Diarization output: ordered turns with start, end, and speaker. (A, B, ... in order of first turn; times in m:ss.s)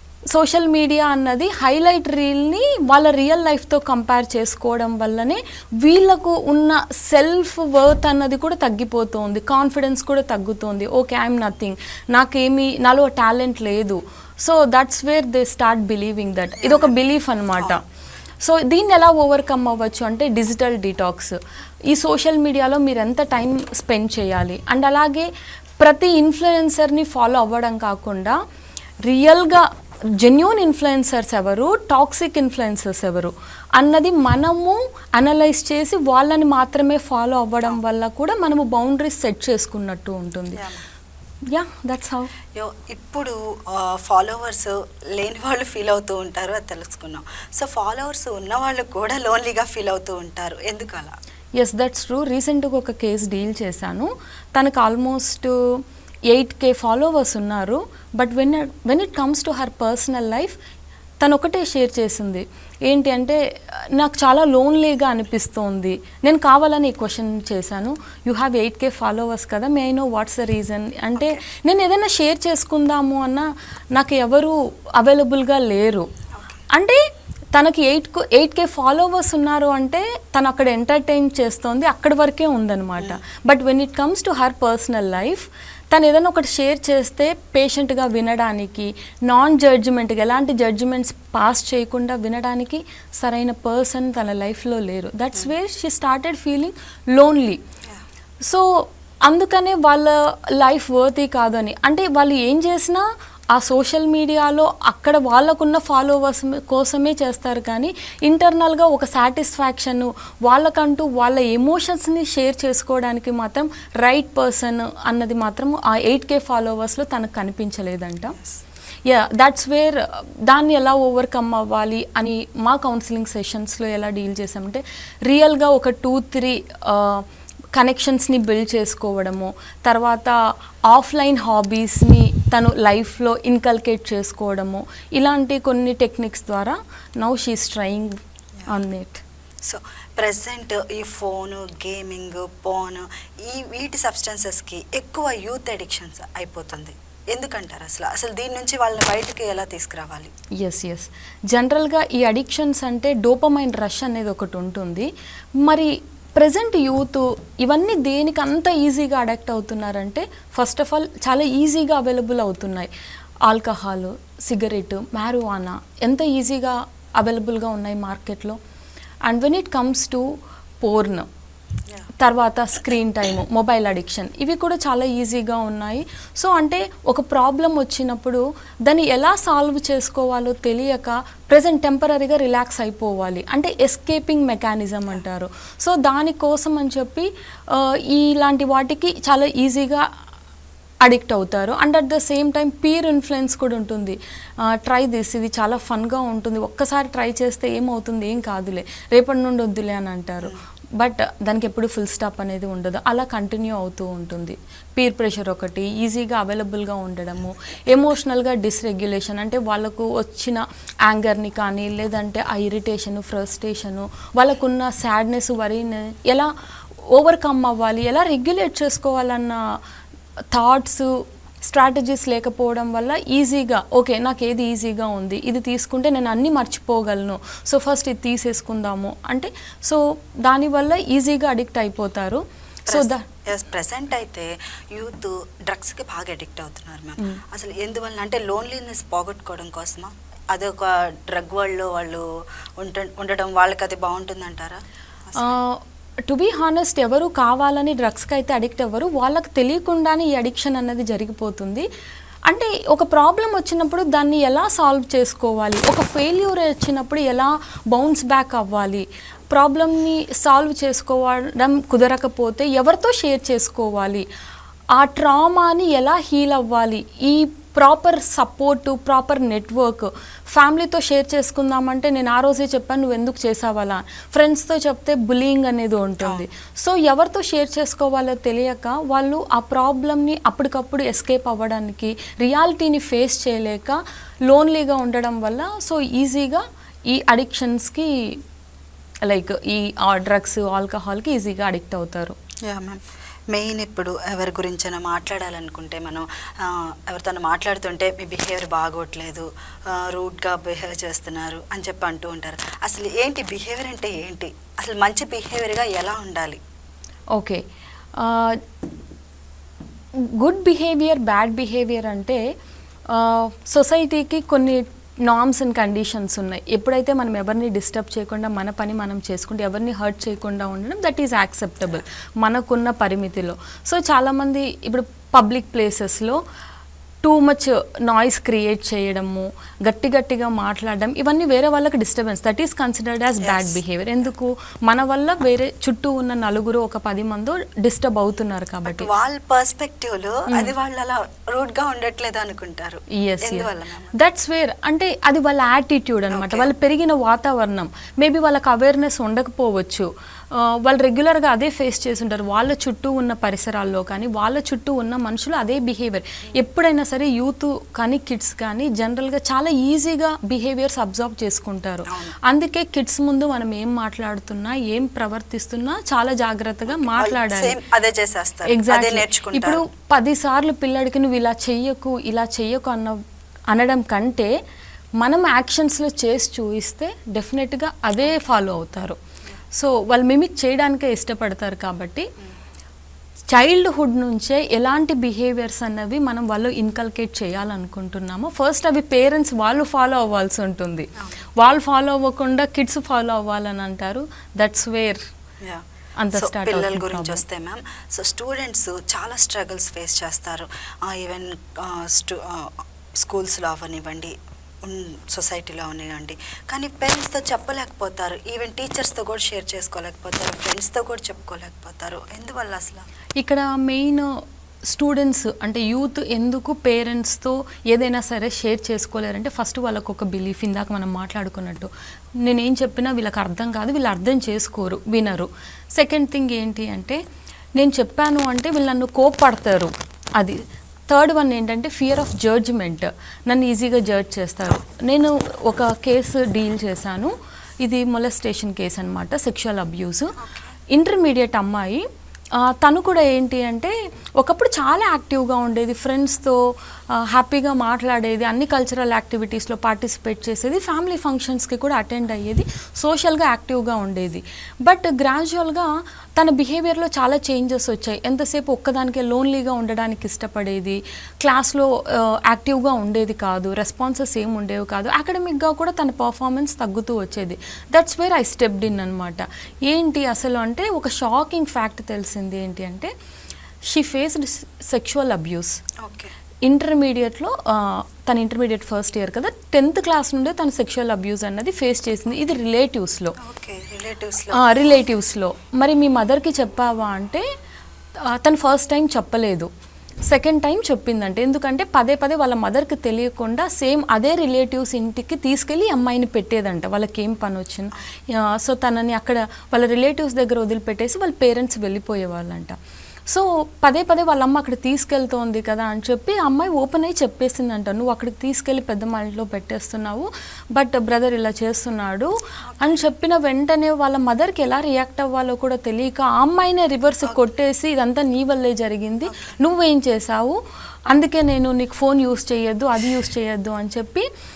0:00.3-0:17.8 A
0:16.6-0:16.9 B
0:18.4-0:21.4 A
0:21.9-0:25.3 A
0:25.8-0:28.4 A
0:29.0-0:40.6 A
0:40.6-0:40.8 B
0:41.5-0:42.3 A
0:42.5-0:51.1 B
0:51.6-0:55.5 A
0:56.3-1:00.6 A
1:01.2-1:03.4 A
1:03.9-1:16.1 A
1:16.3-1:16.6 B
1:16.7-1:17.0 A
1:17.5-1:37.6 A
1:38.4-1:58.4 A
1:59.0-2:10.4 A
2:10.9-2:19.2 A
2:19.6-2:30.3 B
2:30.6-2:35.1 A
2:35.6-2:42.9 A
2:43.5-2:48.6 A
2:49.3-2:50.2 A
2:50.8-2:51.3 A
2:52.2-3:10.0 A
3:11.0-3:36.5 A
3:37.1-3:39.6 A
3:40.5-3:53.2 A
3:52.9-4:02.2 B
4:02.8-4:05.6 B
4:05.4-4:11.8 A
4:12.5-4:24.2 A
4:24.9-4:48.4 A
4:36.2-4:36.4 B
4:49.2-4:52.4 A
4:52.6-5:06.6 B
5:07.3-5:07.6 A
5:08.2-5:08.6 A
5:10.4-5:12.4 A
5:13.1-5:26.4 A
5:27.2-5:39.1 A
5:33.4-5:33.7 B
5:38.8-5:44.2 B
5:43.1-6:07.8 A
5:46.3-5:46.7 B
6:02.1-6:02.3 B
6:06.9-6:09.8 B
6:08.7-6:13.2 A
6:13.7-6:14.5 A
6:15.2-6:19.2 A
6:19.7-6:22.3 A
6:23.5-6:35.2 A
6:36.2-6:37.4 A
6:36.3-6:53.0 B
6:53.4-6:54.3 A
6:54.9-7:01.9 A
7:02.4-7:07.2 A
7:07.8-7:20.4 A
7:20.4-7:20.8 B
7:20.9-7:22.0 A
7:22.6-7:26.6 A
7:27.1-7:53.1 A
7:53.9-7:55.8 A
7:56.0-7:56.3 B
7:56.6-8:03.4 A
8:03.4-8:05.0 B
8:04.5-8:07.4 A
8:08.2-8:09.7 A
8:10.3-8:22.8 A
8:23.3-8:40.6 A
8:32.6-8:33.0 B
8:39.3-8:39.6 B
8:41.1-8:44.3 A